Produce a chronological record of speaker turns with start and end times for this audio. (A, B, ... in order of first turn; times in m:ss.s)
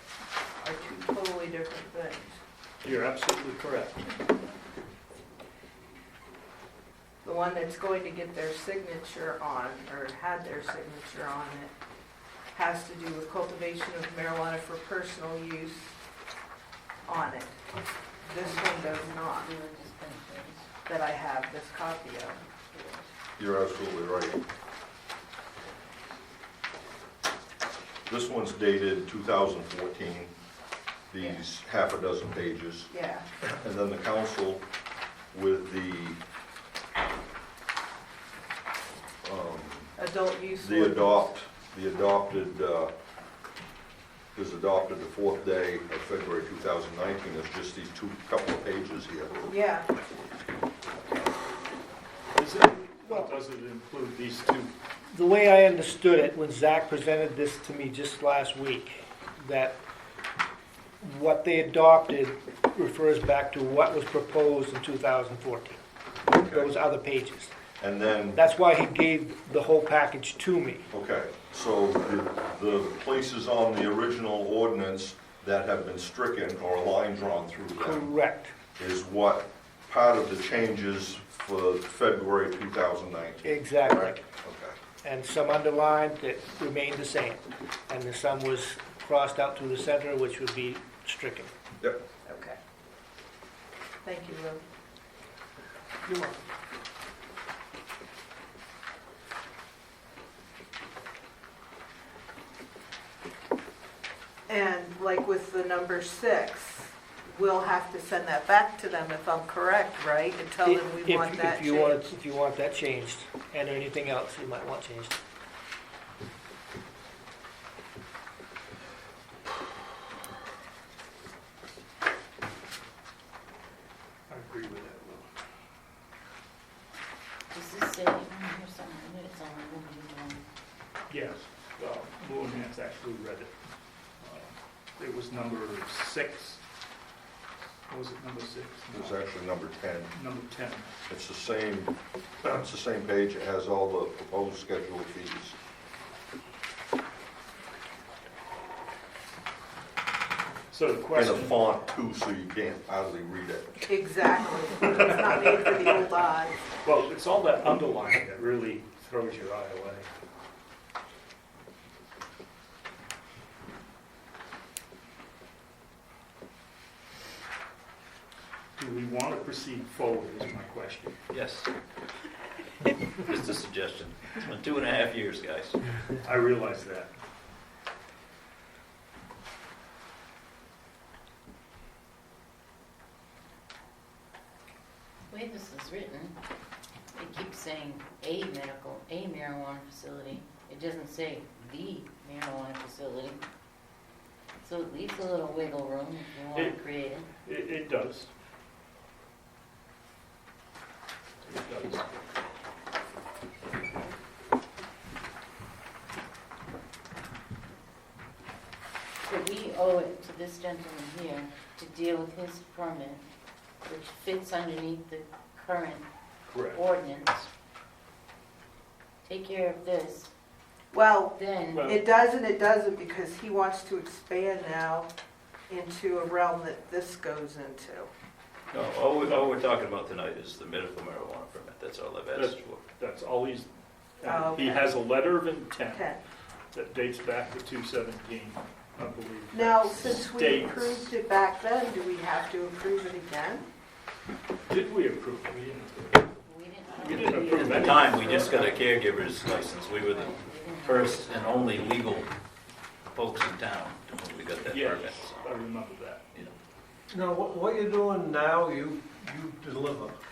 0:00.6-0:02.4 A
0:02.8-0:04.0 B
0:07.2-0:11.7 A
0:12.5-0:15.9 A
0:17.1-0:17.6 A
0:18.2-0:19.5 A
0:19.3-0:20.6 C
0:20.9-0:23.0 A
0:23.4-0:24.4 D
0:28.1-0:30.3 D
0:31.1-0:32.9 D
0:32.9-0:33.2 A
0:33.4-0:34.6 D
0:35.3-0:36.2 D
0:39.2-0:39.9 D
0:40.0-0:41.3 A
0:40.6-0:42.9 D
0:44.4-0:49.4 D
0:49.5-0:49.9 A
0:52.4-0:54.7 B
0:55.1-0:59.8 E
1:01.0-1:05.8 E
1:06.3-1:06.7 D
1:06.6-1:07.5 E
1:07.8-1:08.4 D
1:08.4-1:10.8 E
1:10.9-1:18.1 D
1:17.9-1:18.5 E
1:18.8-1:24.8 D
1:23.6-1:24.1 E
1:25.0-1:31.5 E
1:32.2-1:32.6 A
1:34.0-1:34.6 A
1:36.1-1:36.3 A
1:44.5-1:52.1 A
1:50.6-1:55.2 E
2:04.3-2:05.3 B
2:07.5-2:10.4 C
2:11.1-2:13.5 B
2:14.2-2:16.6 B
2:17.9-2:19.2 B
2:18.9-2:20.1 D
2:20.1-2:20.9 B
2:21.1-2:25.6 D
2:30.7-2:31.6 B
2:31.2-2:33.8 D
2:33.9-2:36.6 A
2:36.8-2:40.1 B
2:48.8-2:51.2 B
2:51.3-2:51.7 F
2:53.2-2:55.8 F
2:56.2-2:57.1 B
3:05.3-3:06.4 C
3:07.1-3:13.4 C
3:14.6-3:17.3 C
3:16.5-3:16.8 B
3:17.4-3:18.3 B
3:21.5-3:22.1 B
3:29.2-3:33.2 C
3:33.8-3:36.0 C
3:36.5-3:36.8 B
3:36.7-3:37.5 C
3:39.2-3:40.3 C
3:40.9-3:45.1 A
3:41.3-3:41.9 C
3:41.7-3:42.0 B
3:45.7-3:48.1 A
3:48.7-3:52.8 F
3:52.4-3:53.7 B
3:54.2-3:56.2 B
3:54.2-3:55.0 A
3:55.9-3:56.2 A
3:56.7-4:01.2 B
3:59.5-4:03.7 A
4:04.7-4:06.3 B
4:06.4-4:08.8 C
4:07.0-4:08.5 B
4:07.0-4:12.3 F
4:10.0-4:11.9 C
4:13.1-4:15.4 F
4:14.7-4:16.3 B
4:17.1-4:20.2 G